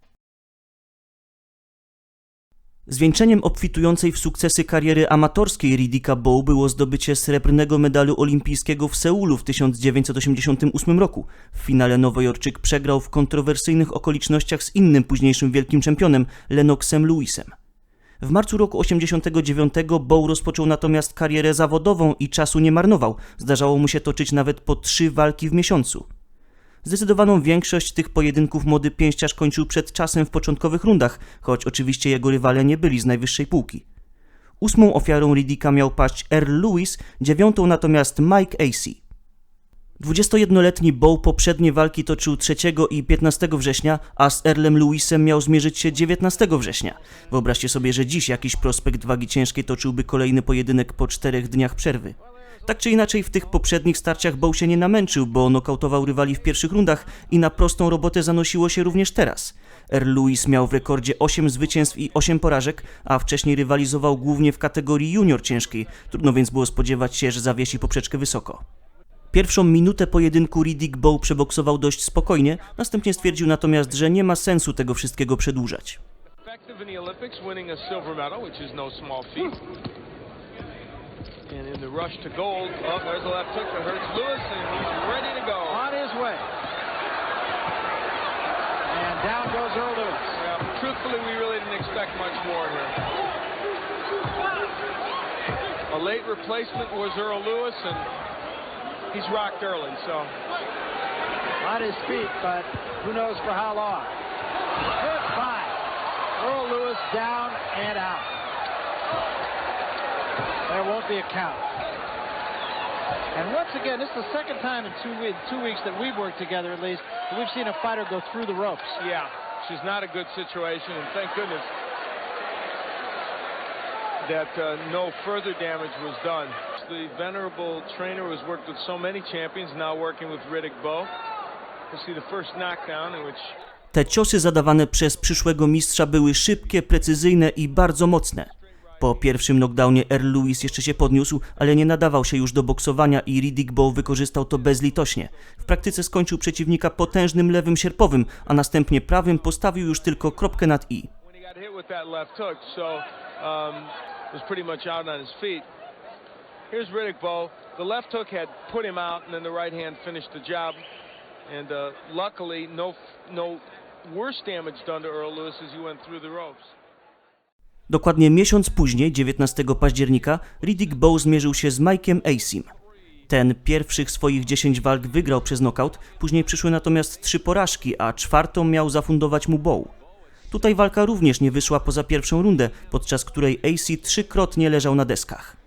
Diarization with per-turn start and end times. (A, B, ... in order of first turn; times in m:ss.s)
0:02.9-0:17.5 A
0:18.2-0:26.0 A
0:26.8-0:33.8 A
0:34.6-0:39.0 A
0:40.0-1:08.6 A
1:09.3-1:16.0 A
1:16.4-1:19.6 B
1:21.5-1:25.9 B
1:25.7-1:26.5 C
1:28.9-1:30.4 C
1:30.3-1:33.0 B
1:35.9-1:38.1 B
1:39.1-1:40.3 B
1:41.6-1:44.1 C
1:45.0-1:45.8 C
1:46.4-1:48.3 C
1:50.7-1:51.7 C
1:53.3-1:59.0 C
1:59.0-2:01.7 B
2:04.2-2:11.1 B
2:11.9-2:13.6 B
2:13.9-2:31.1 A
2:31.3-2:35.7 B
2:36.7-2:40.8 B
2:41.4-2:46.7 B
2:47.9-2:52.7 A
2:53.3-2:59.9 A
3:00.5-3:05.6 A